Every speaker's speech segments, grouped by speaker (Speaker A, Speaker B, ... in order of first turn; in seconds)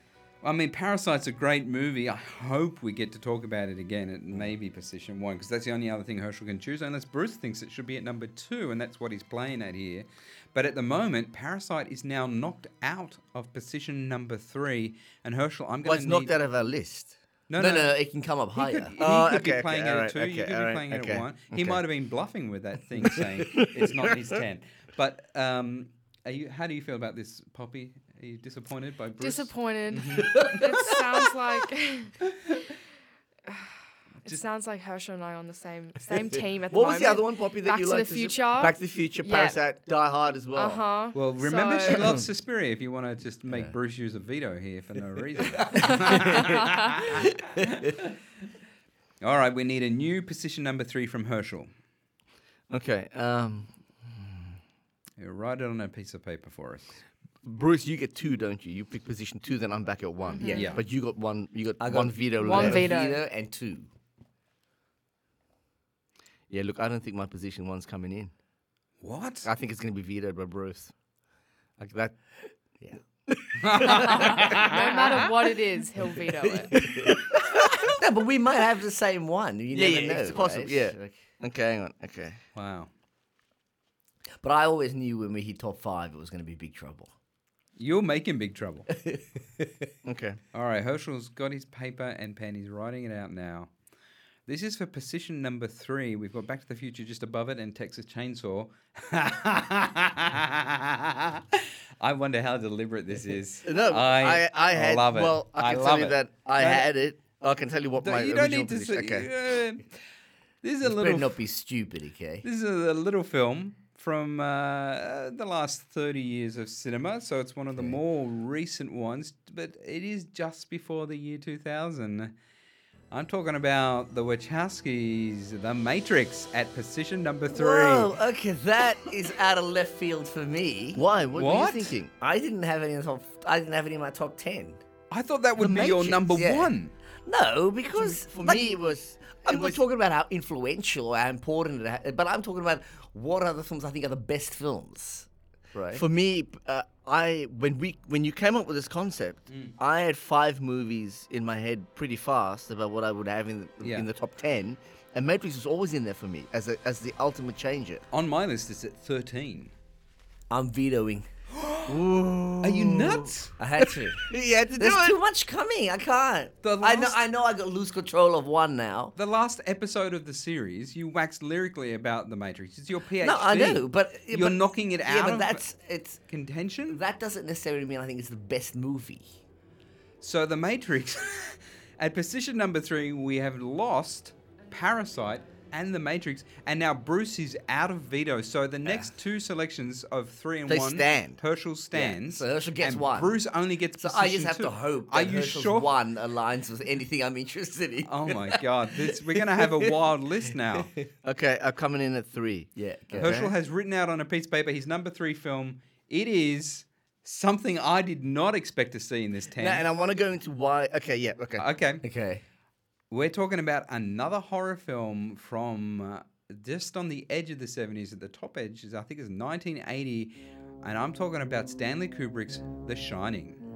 Speaker A: 0.4-16.3, 17.5-18.0, 18.6-31.2, 41.1-48.1, 49.2-51.7, 55.2-57.0, 60.5-60.8, 69.0-69.5, 73.6-75.2, 82.5-82.9, 87.8-88.9, 90.5-93.7, 94.5-106.9, 108.0-109.9, 110.6-111.4, 112.4-122.3, 123.1-128.2, 131.3-131.9, 135.1-136.9, 153.8-154.1, 158.1-159.7, 161.5-162.1, 162.6-163.5, 166.6-167.2, 169.2-175.6, 176.3-177.0, 180.2-195.9, 198.1-200.9, 203.2-209.8, 211.6-212.0, 213.1-223.6
Speaker B: 15.8-17.2, 19.0-21.8, 23.1-24.1, 36.7-40.8, 52.7-54.5, 57.4-62.9, 66.5-68.3, 69.4-70.9, 71.8-72.2, 73.6-73.8, 76.7-77.8, 79.7-82.4, 90.0-90.4, 103.6-109.3, 130.9-132.1, 135.6-136.2, 137.9-139.8, 145.9-158.1, 161.9-163.3, 164.3-165.2, 190.7-191.4, 201.2-203.5, 209.6-211.7
Speaker C: 17.6-18.9, 43.5-43.7, 45.8-46.5, 61.8-63.9, 76.7-77.2, 77.9-81.2, 84.4-87.1, 88.9-89.9, 110.8-112.5, 127.5-131.1, 132.2-134.8, 135.7-136.7, 137.3-138.8, 139.4-146.0, 160.5-161.3, 163.6-169.1, 173.2-176.2, 176.9-179.3, 191.9-193.3, 194.0-199.8, 202.8-203.3, 212.0-212.4
Speaker D: 29.2-32.2, 33.5-33.7, 34.2-39.6, 40.6-42.2, 60.3-60.7, 62.4-63.2, 73.8-76.8